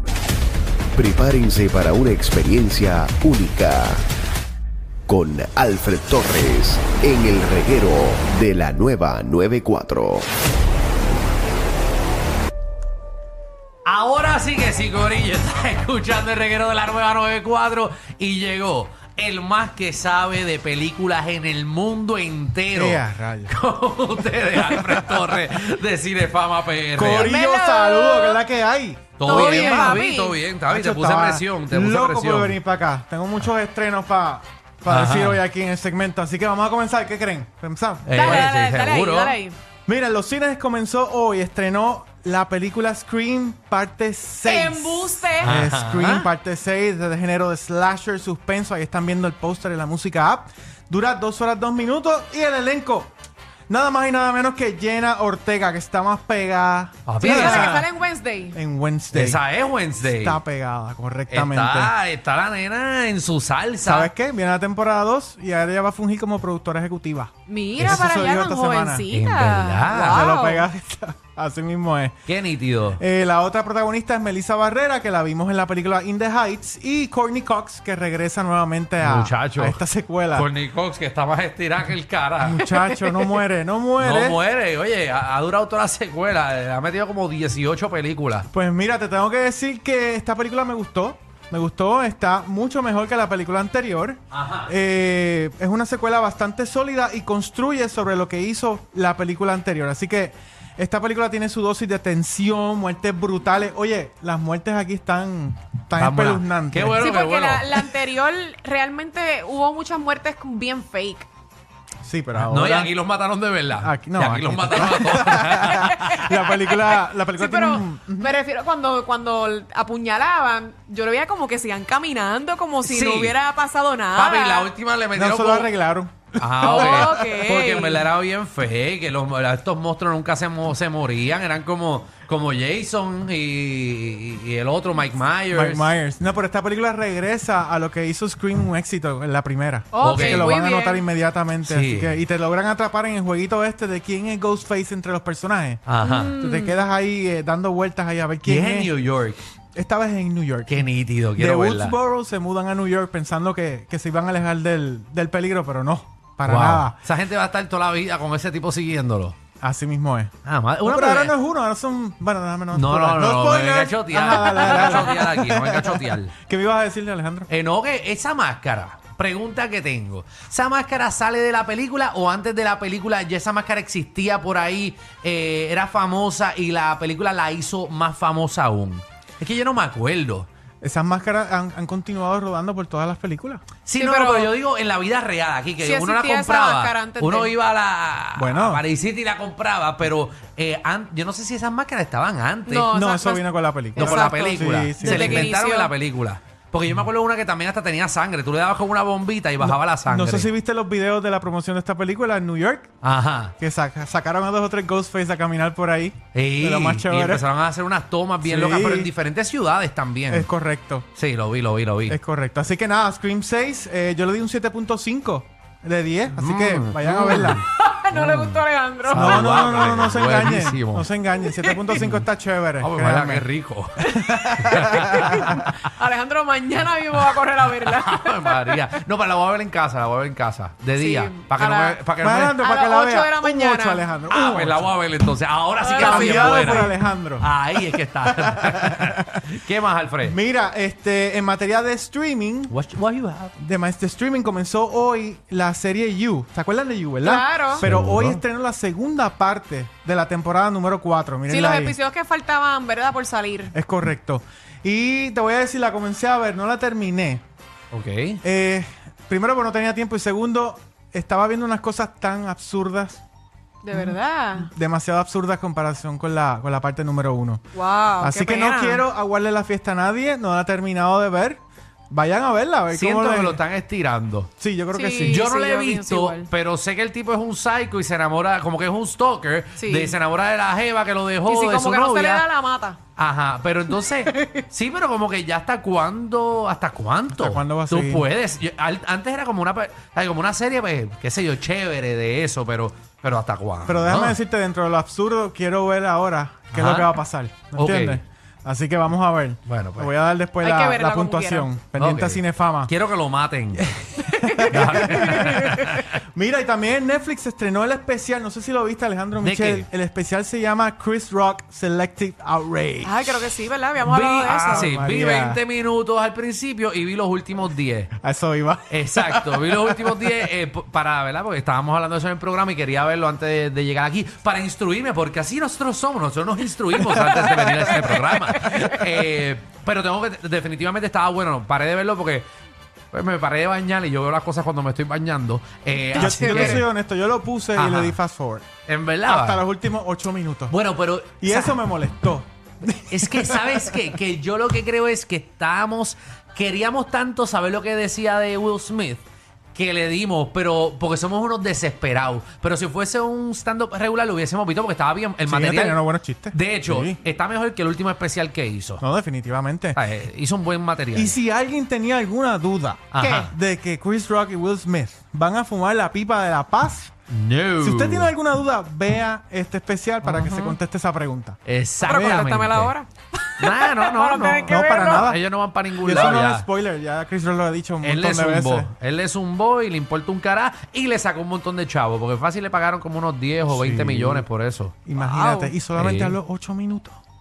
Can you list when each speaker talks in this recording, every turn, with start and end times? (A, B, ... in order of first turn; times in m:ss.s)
0:00.9-0:04.0 A
0:05.1-0:10.2 A
0:13.8-0:27.3 B
0:22.7-0:23.5 C
0:26.9-0:30.0 C
0:27.2-0:28.4 D
0:29.2-0:32.6 B
0:29.2-0:30.4 D
0:30.7-0:38.4 C
0:34.9-0:35.4 B
0:38.0-0:39.4 B
0:38.1-0:39.6 D
0:39.8-0:53.1 C
0:44.4-0:45.6 D
0:45.4-0:46.3 B
0:53.7-0:57.9 C
0:57.1-0:57.7 B
0:57.2-0:58.6 D
0:58.5-0:59.4 C
0:59.1-1:00.4 B
1:00.0-1:01.9 C
1:01.3-1:04.1 B
1:03.8-1:09.0 C
1:07.5-1:10.7 D
1:09.1-1:10.3 B
1:09.9-1:12.3 C
1:12.3-1:13.0 B
1:13.0-1:20.5 C
1:19.0-1:19.8 B
1:20.3-1:22.7 B
1:22.4-1:24.4 C
1:22.8-1:23.2 D
1:24.0-1:28.5 B
1:28.5-1:47.1 C
1:34.3-1:34.7 B
1:46.0-1:47.8 B
1:47.0-1:51.3 D
1:52.0-1:52.9 C
1:52.4-1:56.5 B
1:53.8-1:58.3 C
1:55.6-2:04.7 D
2:02.8-2:03.3 B
2:04.1-2:05.7 B
2:05.1-2:07.2 C
2:06.4-2:15.9 B
2:06.6-2:08.1 D
2:15.5-2:28.9 C
2:19.9-2:21.0 D
2:20.0-2:20.5 B
2:21.6-2:22.2 B
2:25.8-2:26.4 B
2:26.0-2:26.8 D
2:28.4-2:29.4 B
2:29.7-2:37.0 C
2:30.7-2:32.0 B
2:36.4-2:39.4 B
2:39.6-2:40.3 C
2:40.4-2:41.3 B
2:40.8-2:47.5 C
2:42.7-2:46.3 B
2:47.5-3:00.5 B
3:00.8-3:03.6 C
3:03.8-3:12.9 B
3:03.9-3:04.5 D
3:05.8-3:07.5 D
3:08.4-3:08.8 C
3:12.7-3:15.9 D
3:12.9-3:15.5 C
3:14.0-3:20.5 B
3:19.6-3:22.9 C
3:23.0-3:23.5 B
3:23.6-3:27.4 C
3:26.3-3:30.5 B
3:28.4-3:29.1 C
3:30.3-3:31.1 C
3:31.2-3:32.2 B
3:32.1-3:37.6 C
3:36.4-3:41.1 B
3:37.2-3:39.8 D
3:39.1-3:43.5 C
3:41.4-3:42.0 D
3:41.9-3:42.2 B
3:42.8-3:45.7 B
3:44.0-3:48.8 D
3:44.2-3:45.5 C
3:47.8-3:52.6 B
3:51.0-3:52.0 D
3:52.2-3:54.9 C
3:52.6-3:54.0 D
3:54.3-4:00.4 B
3:55.8-3:56.9 D
3:56.0-3:57.5 C
3:58.2-3:59.2 C
4:00.2-4:02.7 C
4:02.7-4:03.5 B
4:03.6-4:12.0 C
4:07.2-4:07.8 D
4:07.8-4:08.4 B
4:11.5-4:13.7 D
4:13.7-4:17.4 C
4:17.9-4:18.4 B
4:18.4-4:23.2 C
4:23.8-4:24.7 D
4:23.9-4:27.6 C
4:27.7-4:29.0 D
4:28.2-4:33.6 C
4:32.9-4:34.5 B
4:34.6-4:35.4 C
4:34.9-4:36.5 D
4:35.2-4:42.4 B
4:39.8-4:40.1 D
4:41.4-4:43.0 D
4:43.2-4:54.4 B
4:44.2-4:44.6 D
4:47.3-4:48.3 C
4:53.8-5:02.9 C
4:56.7-4:57.1 B
4:57.7-4:58.2 B
4:59.6-5:00.1 B
5:00.6-5:01.7 D
5:01.9-5:03.9 B
5:04.3-5:13.5 C
5:04.3-5:05.8 D
5:04.6-5:06.2 B
5:09.4-5:09.9 B
5:13.0-5:14.9 D
5:14.1-5:18.1 B
5:14.6-5:15.6 C
5:18.2-5:20.1 C
5:18.9-5:32.5 B
5:27.0-5:28.0 C
5:28.5-5:28.9 D
5:33.1-5:36.9 B
5:36.1-5:36.8 D
5:36.2-5:38.6 C
5:37.7-5:38.2 B
5:38.8-5:39.6 B
5:39.2-5:40.7 C
5:40.7-5:41.7 B
5:41.4-5:44.0 C
5:43.1-5:59.0 B
5:55.4-5:57.2 C
5:59.0-6:00.0 C
5:59.9-6:01.4 B
6:01.1-6:07.1 C
6:03.1-6:03.5 B
6:07.3-6:08.3 B
6:07.8-6:12.4 C
6:10.2-6:10.5 B
6:11.6-6:12.9 B
6:12.0-6:15.3 D
6:13.6-6:16.7 B
6:14.4-6:15.4 C
6:16.0-6:18.9 C
6:18.0-6:24.9 B
6:23.7-6:24.4 C
6:25.0-6:27.2 C
6:25.2-6:25.8 D
6:26.0-6:26.4 B